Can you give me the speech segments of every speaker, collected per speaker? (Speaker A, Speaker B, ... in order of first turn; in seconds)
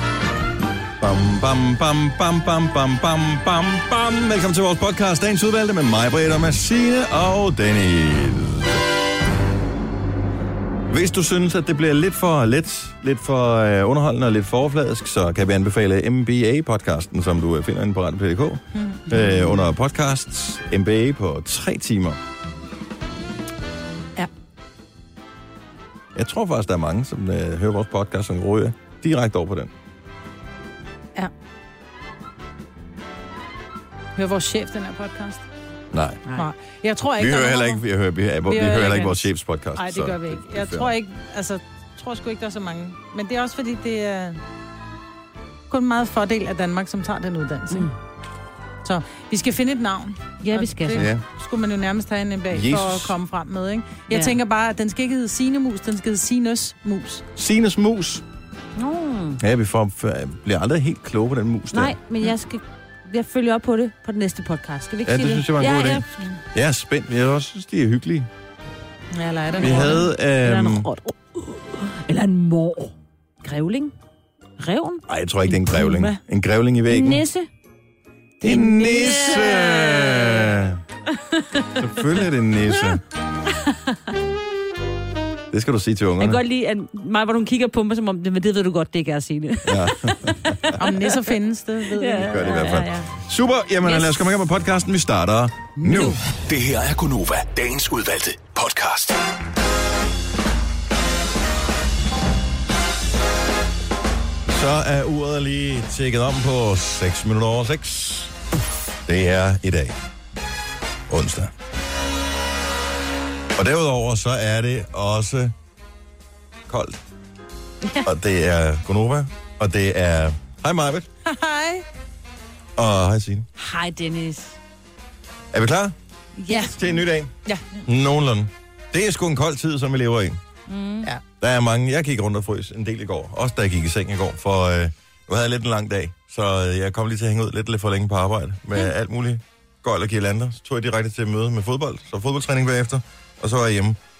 Speaker A: 1.0-8.8, 10.9-22.2, 26.1-29.7, 35.9-36.3, 37.2-40.9, 50.9-51.2, 52.5-53.1, 57.3-58.2, 59.4-62.0, 65.0-68.3, 69.6-70.9, 75.1-77.2, 78.4-80.8, 81.8-83.0, 85.5-86.4, 89.6-90.8, 92.2-96.2, 104.5-108.3, 109.0-110.0, 111.1-111.5, 113.5-115.5, 116.7-117.0, 118.0-121.1, 122.8-123.5, 125.5-125.9, 126.5-127.3, 127.8-130.4, 131.4-144.0
Speaker B: 18.7-19.7, 34.1-35.5, 36.3-37.8, 38.4-44.4, 45.7-47.9, 48.8-57.2, 69.1-70.0, 79.0-79.2, 90.8-92.6, 95.8-96.2, 121.2-121.8
Speaker C: 50.4-51.1, 54.1-54.4, 58.8-59.4, 61.7-66.3, 69.5-73.9, 74.6-76.2, 76.9-77.5, 78.4-80.6, 81.1-83.0, 83.5-84.0, 86.2-91.3, 92.0-93.1, 93.8-94.2, 123.6-124.5, 126.4-127.0, 130.7-131.1
Speaker D: 96.5-99.2